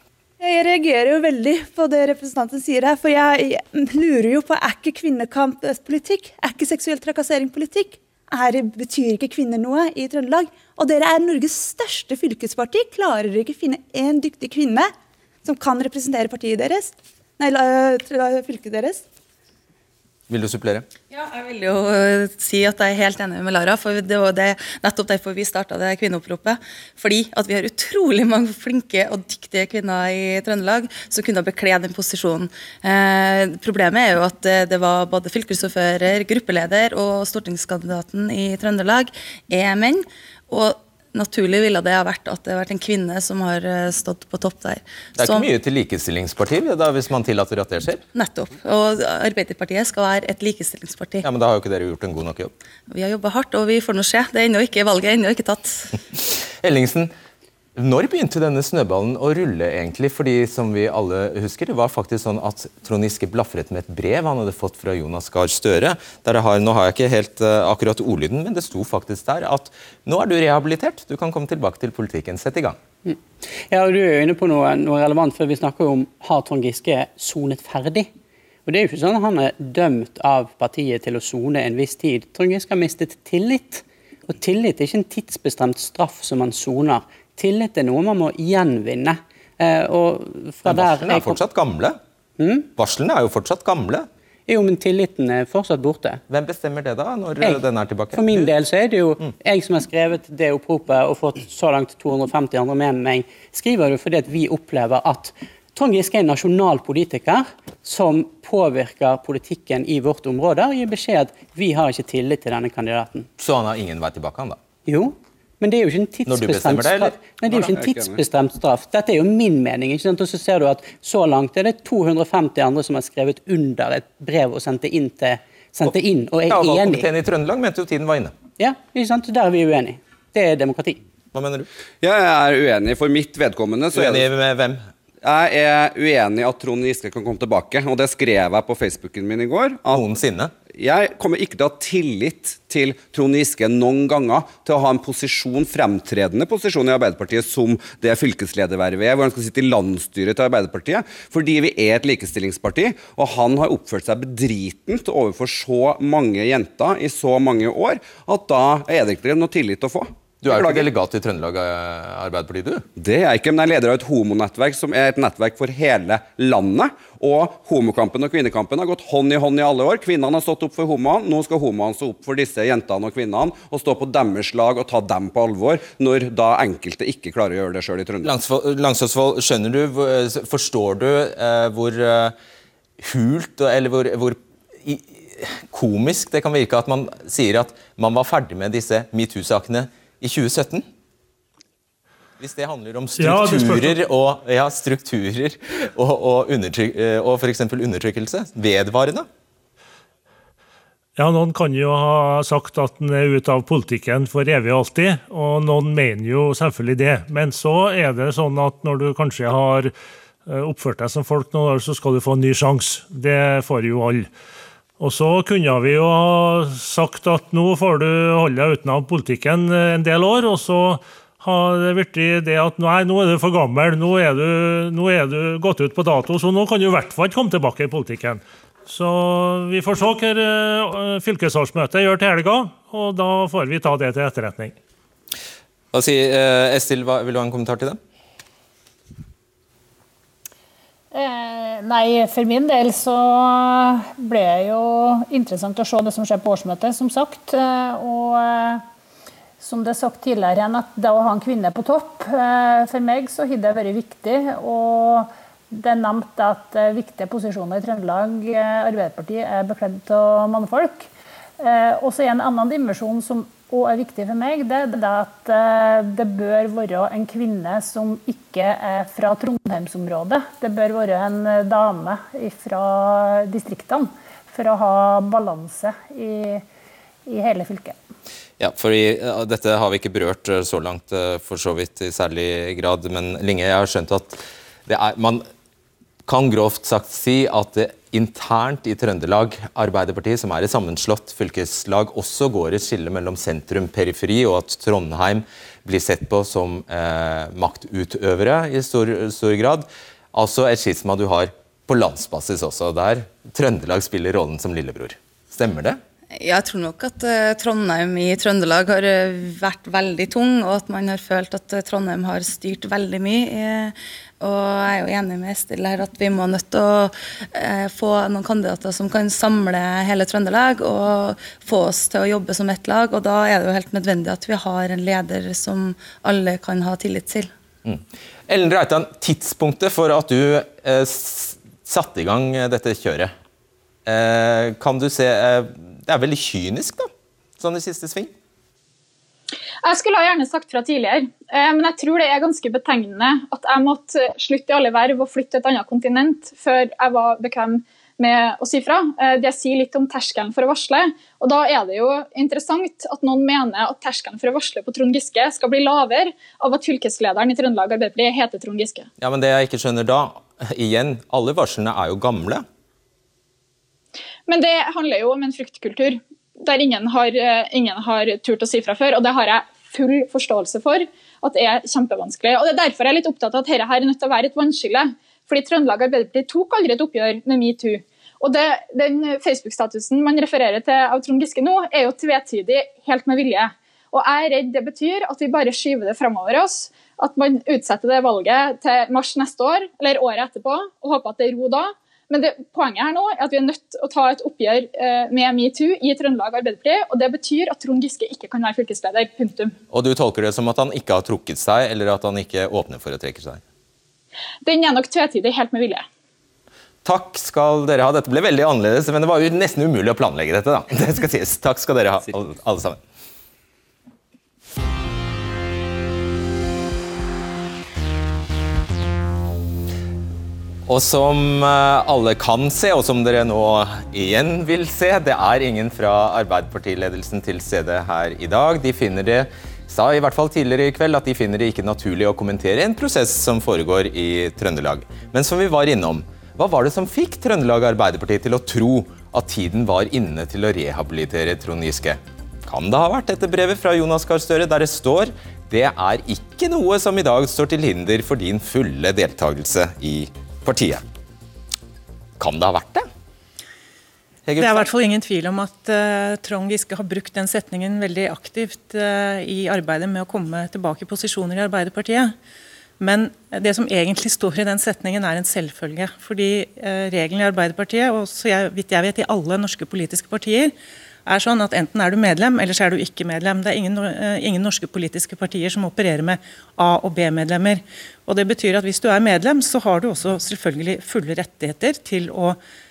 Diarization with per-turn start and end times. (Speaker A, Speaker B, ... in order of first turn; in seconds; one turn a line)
Speaker A: 0.4-14.9
Speaker A: 15.4-19.0
Speaker B: 20.3-20.9
Speaker C: 21.1-45.5
Speaker B: 45.1-48.0
Speaker C: 48.1-51.2
Speaker B: 51.2-52.5
Speaker C: 52.9-56.0
Speaker B: 56.2-57.1
Speaker B: 57.8-72.8
Speaker D: 73.0-78.1
Speaker D: 78.7-91.4
Speaker B: 90.6-92.0
Speaker D: 92.4-92.7
Speaker B: 92.7-94.1
Speaker D: 94.5-96.2
Speaker B: 96.3-98.5
Speaker D: 97.4-113.3
Speaker B: 113.4-114.6
Speaker D: 114.8-127.1
Speaker B: 116.2-117.1
Speaker E: 117.5-118.2
Speaker B: 126.5-128.3
Speaker D: 128.6-131.0
Speaker B: 131.3-131.7
Speaker E: 132.0-134.3
Speaker B: 133.9-134.8
Speaker E: 135.2-140.0
Speaker B: 139.9-140.5
Speaker E: 140.7-160.9
Speaker B: 160.4-162.8
Speaker E: 163.0-178.4
Speaker B: 178.2-182.3
Speaker B: 183.0-190.8
Speaker B: 192.4-199.3
Speaker F: 193.2-194.0
Speaker F: 201.2-209.9
Speaker F: 210.5-214.3
Speaker F: 215.0-234.7
Speaker B: 235.9-238.0
Speaker G: 241.1-248.8
Speaker G: 249.6-276.6
Speaker G: 277.3-278.0
Speaker B: 278.6-285.4
Speaker B: 286.3-306.0
Speaker C: 306.4-327.5
Speaker B: 327.8-333.3
Speaker B: 334.1-338.3
Speaker H: 339.8-359.1
Speaker B: 359.2-362.6
Speaker H: 364.5-399.7
Speaker B: 399.9-403.6
Speaker H: 404.6-406.1
Speaker B: 407.0-413.0
Speaker B: 420.9-451.0
Speaker B: 452.4-453.1
Speaker B: 454.4-454.9
Speaker I: 454.6-462.3
Speaker I: 463.0-470.7
Speaker I: 471.2-482.6